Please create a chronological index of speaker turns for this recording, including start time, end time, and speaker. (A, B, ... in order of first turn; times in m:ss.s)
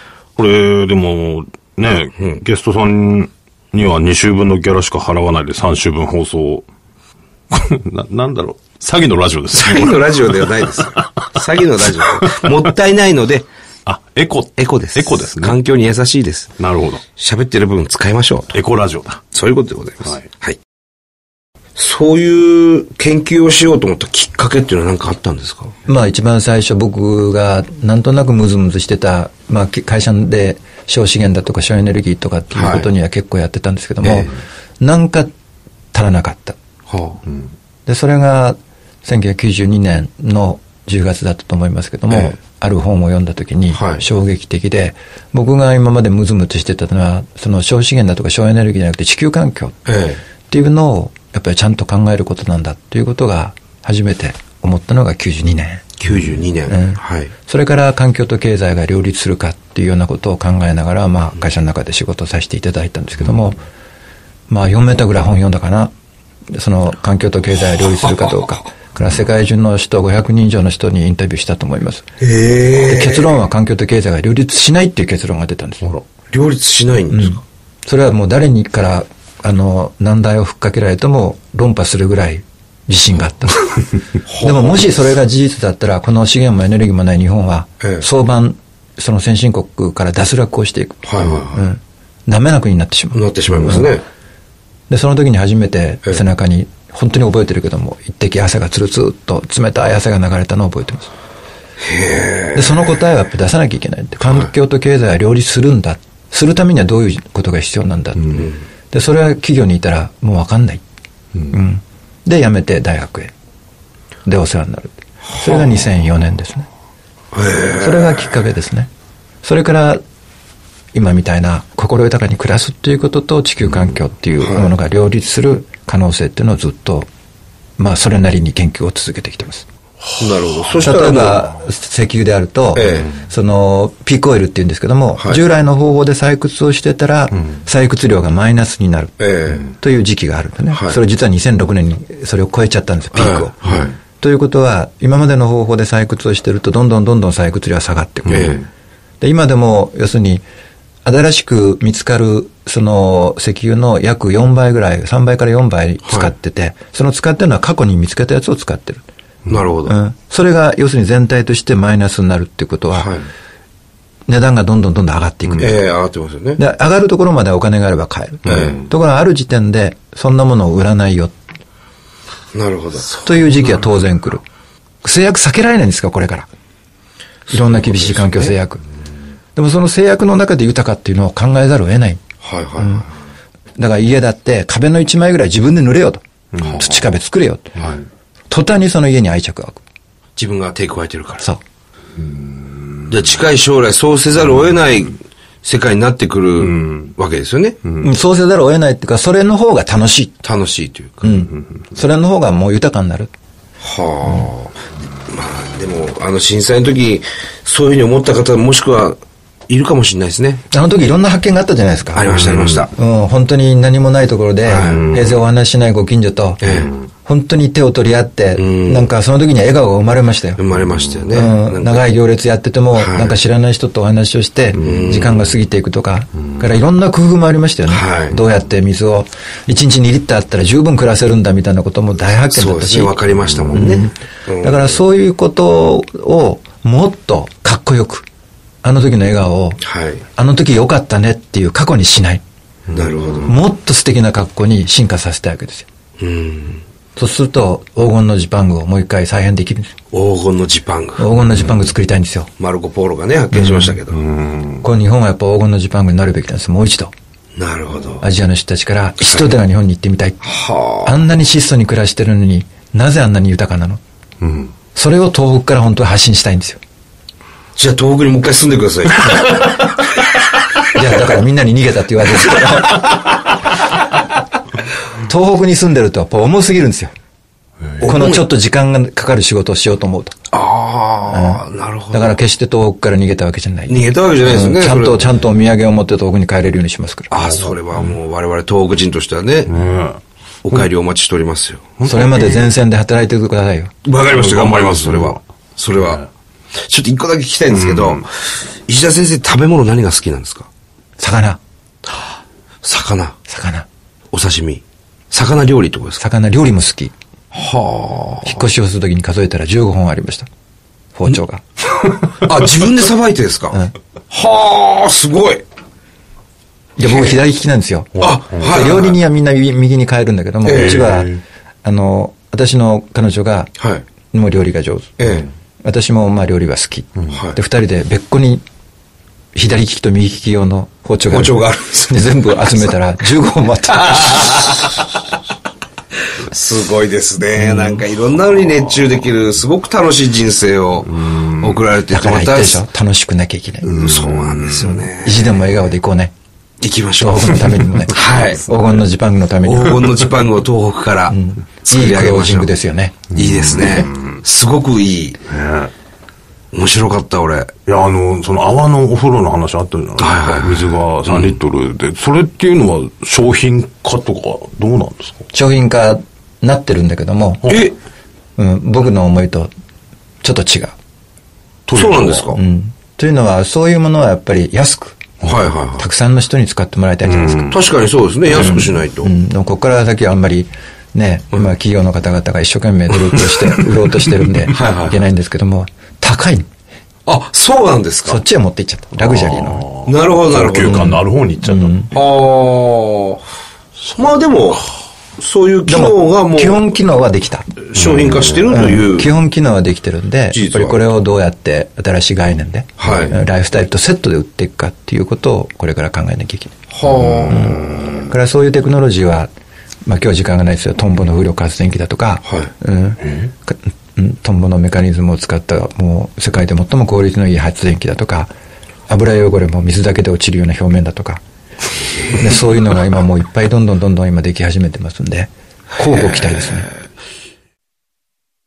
0:00.4-0:06.7 A
0:07.5-0:11.4 A
0:09.5-0:13.5 B
0:12.0-0:12.5 A
0:13.8-0:15.6 A
0:14.6-0:16.5 B
0:16.6-0:17.0 A
0:17.1-0:18.6 B
0:18.5-0:19.2 A
0:19.3-0:20.6 B
0:21.8-0:25.7 B
0:25.9-0:35.3 C
0:32.5-0:32.9 B
0:34.0-0:34.3 B
0:35.9-0:36.6 C
0:36.9-0:37.2 B
0:37.8-0:49.8 C
0:42.1-0:42.4 B
0:43.7-0:44.0 B
0:49.9-0:50.2 B
0:50.5-0:56.0 C
0:56.0-0:57.3 B
0:56.7-1:03.6 C
1:04.5-1:05.9 C
1:06.5-1:12.1 C
1:12.2-1:13.4 B
1:12.8-1:16.0 C
1:16.3-1:17.4 B
1:17.1-1:33.9 C
1:24.2-1:25.0 B
1:31.0-1:31.6 B
1:33.1-1:34.0 B
1:34.9-1:41.1 C
1:41.8-1:42.9 B
1:42.5-1:50.8 C
1:51.5-1:53.3 C
1:54.2-1:56.7 C
1:57.3-1:58.4 B
1:57.8-1:58.9 C
1:59.4-2:00.0 C
2:00.9-2:07.1 C
2:04.4-2:04.7 B
2:07.8-2:09.6 C
2:10.2-2:11.4 B
2:10.8-2:28.6 C
2:12.8-2:13.1 B
2:19.2-2:19.7 B
2:20.7-2:21.0 B
2:23.1-2:23.9 B
2:28.3-2:28.6 B
2:29.2-2:30.4 C
2:31.0-2:39.0 C
2:36.0-2:36.3 B
2:39.5-2:40.0 B
2:39.8-2:43.1 C
2:42.9-2:43.3 B
2:44.3-2:45.8 C
2:45.6-2:46.6 B
2:46.6-2:51.3 C
2:48.4-2:48.8 B
2:52.5-2:53.2 B
2:53.2-2:54.4 C
2:55.0-2:56.5 C
2:57.5-2:58.5 B
2:57.5-2:58.8 C
2:59.6-3:02.2 C
3:02.4-3:03.1 B
3:02.8-3:03.0 C
3:03.8-3:06.2 C
3:06.5-3:07.0 A
3:06.7-3:07.8 C
3:08.5-3:09.8 C
3:10.4-3:11.4 B
3:12.3-3:13.1 A
3:13.1-3:17.8 B
3:16.6-3:17.1 A
3:18.0-3:20.4 C
3:20.4-3:21.2 B
3:21.2-3:23.3 C
3:23.8-3:30.6 B
3:30.7-3:40.6 C
3:32.1-3:32.9 B
3:32.3-3:32.8 A
3:34.6-3:35.1 B
3:36.6-3:36.9 B
3:38.6-3:39.1 B
3:40.6-3:42.1 B
3:41.3-3:53.2 C
3:42.9-3:43.4 B
3:44.8-3:45.5 B
3:47.9-3:48.4 B
3:52.5-3:55.0 B
3:53.7-3:58.2 C
3:58.8-3:59.8 C
3:59.8-4:00.2 B
4:00.4-4:02.4 C
4:02.9-4:03.5 B
4:03.4-4:05.9 C
4:06.2-4:06.8 B
4:07.2-4:09.9 C
4:10.1-4:11.2 B
4:11.2-4:12.5 C
4:12.6-4:14.2 B
4:13.6-4:13.9 C
4:14.1-4:14.8 A
4:14.8-4:17.1 C
4:17.6-4:18.2 B
4:18.2-4:20.5 C
4:20.4-4:21.2 B
4:21.0-4:24.0 C
4:24.4-4:24.7 A
4:24.9-4:26.8 C
4:27.8-4:29.8 B
4:30.9-4:33.2 C
4:35.2-4:37.1 C
4:38.0-4:38.4 B
4:38.0-4:40.4 C
4:40.5-4:42.4 B
4:41.3-4:47.3 C
4:43.9-4:45.2 B
4:47.3-4:49.7 B
4:47.5-4:48.1 A
4:49.7-4:50.2 A
4:50.6-4:51.9 B
4:52.0-4:52.7 A
4:52.0-4:53.9 C
4:54.0-4:56.2 B
4:54.3-4:55.4 A
4:55.9-4:56.2 A
4:56.8-5:00.7 B
4:57.7-4:58.2 A
5:01.2-5:01.6 C
5:02.8-5:03.4 B
5:03.5-5:03.9 C
5:04.3-5:06.2 B
5:06.2-5:07.1 C
5:07.5-5:08.6 B
5:08.4-5:10.5 C
5:11.1-5:11.6 C
5:12.4-5:15.6 B
5:17.0-5:23.7 C
5:17.0-5:17.4 B
5:18.2-5:18.7 A
5:18.2-5:19.2 B
5:20.6-5:21.0 B
5:20.7-5:21.4 A
5:23.8-5:24.0 B
5:24.3-5:25.2 C
5:25.2-5:25.5 B
5:25.8-5:28.6 C
5:27.3-5:27.6 B
5:29.5-5:34.6 C
5:31.3-5:32.4 B
5:34.1-5:34.9 B
5:36.4-5:42.8 B
5:37.6-5:38.0 C
5:41.2-5:41.8 A
5:42.1-5:44.0 C
5:43.8-5:45.9 B
5:43.9-5:45.0 A
5:44.8-5:46.3 C
5:46.8-5:48.7 B
5:47.2-5:50.3 C
5:48.0-5:48.3 A
5:49.6-5:52.7 B
5:51.3-5:53.2 C
5:53.3-5:55.4 B
5:53.3-5:54.4 A
5:55.5-5:55.9 A
5:56.7-5:57.7 B
5:57.8-6:05.4 A
6:00.2-6:01.5 B
6:05.5-6:07.7 C
6:07.6-6:07.9 B
6:08.6-6:09.7 C
6:10.4-6:11.0 C
6:11.9-6:12.5 A
6:11.9-6:12.6 B
6:12.5-6:15.2 C
6:15.4-6:16.0 B
6:16.0-6:17.7 C
6:17.3-6:17.7 A
6:17.7-6:19.3 B
6:18.5-6:26.7 C
6:24.7-6:25.2 B
6:27.3-6:28.4 B
6:28.2-6:29.8 C
6:29.2-6:32.0 A
6:30.0-6:31.1 B
6:30.7-6:32.1 C
6:32.1-6:33.4 B
6:34.2-6:34.8 B
6:35.4-6:36.8 B
6:35.9-6:37.7 C
6:37.9-6:39.3 B
6:38.0-6:38.6 A
6:38.7-6:46.8 C
6:40.5-6:41.0 B
6:43.0-6:43.4 B
6:46.9-6:47.8 B
6:47.1-6:48.3 A
6:47.5-6:49.5 C
6:50.0-6:58.5 C
6:52.4-6:52.7 B
6:59.1-7:01.4 C
7:02.2-7:06.9 C
7:06.2-7:06.7 B